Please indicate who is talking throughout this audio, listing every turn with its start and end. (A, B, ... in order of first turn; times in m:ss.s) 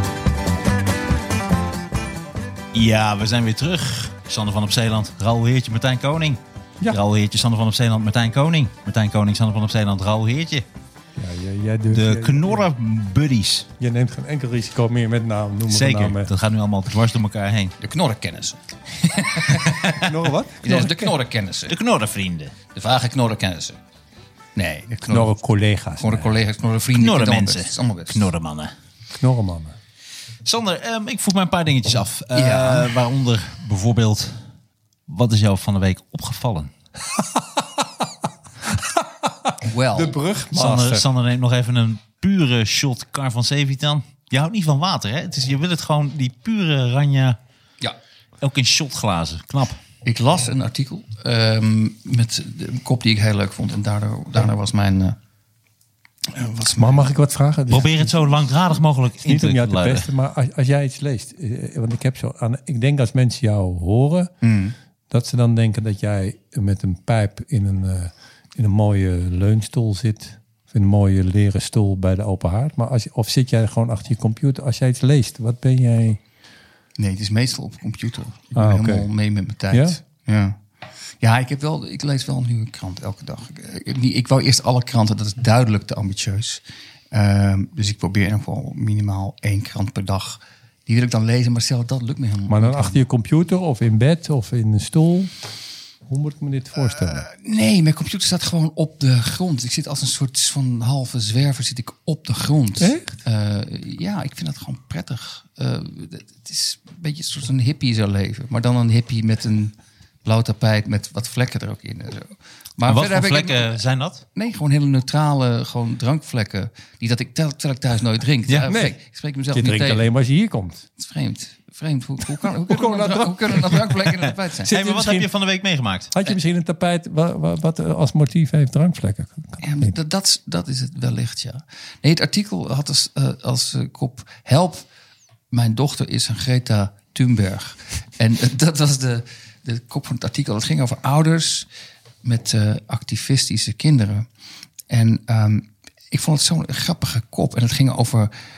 0:02.7-0:10.6 A
0:11.2-0:12.6 B
0:11.9-0:13.7 A
0:13.8-0:16.3 B
0:15.7-0:17.7 A
0:17.8-0:19.9 C
0:19.6-0:20.1 A
0:19.9-0:21.1 B
0:20.6-0:21.8 C
0:21.7-0:22.5 A
0:22.7-0:23.8 C
0:24.5-0:25.3 C
0:25.1-0:26.3 B
0:26.0-0:28.3 C
0:26.9-0:28.7 A
0:29.2-0:29.8 B
0:30.4-0:34.4 A
0:32.3-0:33.0 C
0:35.1-0:36.7 A
0:37.0-0:41.0 B
0:39.6-0:40.1 C
0:40.5-0:47.4 A
0:48.4-0:49.8 A
0:50.0-0:55.2 C
0:56.3-0:57.1 C
0:56.8-0:58.2 B
0:57.7-1:00.1 A
0:59.2-1:04.3 B
1:04.4-1:04.7 C
1:05.1-1:16.2 B
1:17.0-1:20.6 C
1:18.6-1:19.1 B
1:19.7-1:20.0 B
1:21.2-1:33.0 C
1:32.5-1:35.3 B
1:36.0-1:37.2 B
1:36.9-1:53.8 C
1:42.8-1:43.1 B
1:52.9-1:54.2 A
1:54.3-2:00.0 C
1:58.7-1:58.9 B
1:59.5-2:00.8 B
2:01.0-2:04.7 C
2:02.4-2:04.0 B
2:04.6-2:05.3 B
2:04.6-2:06.1 A
2:06.1-2:09.9 B
2:09.6-2:14.8 C
2:15.5-2:21.7 C
2:22.2-2:24.3 C
2:24.9-2:28.3 C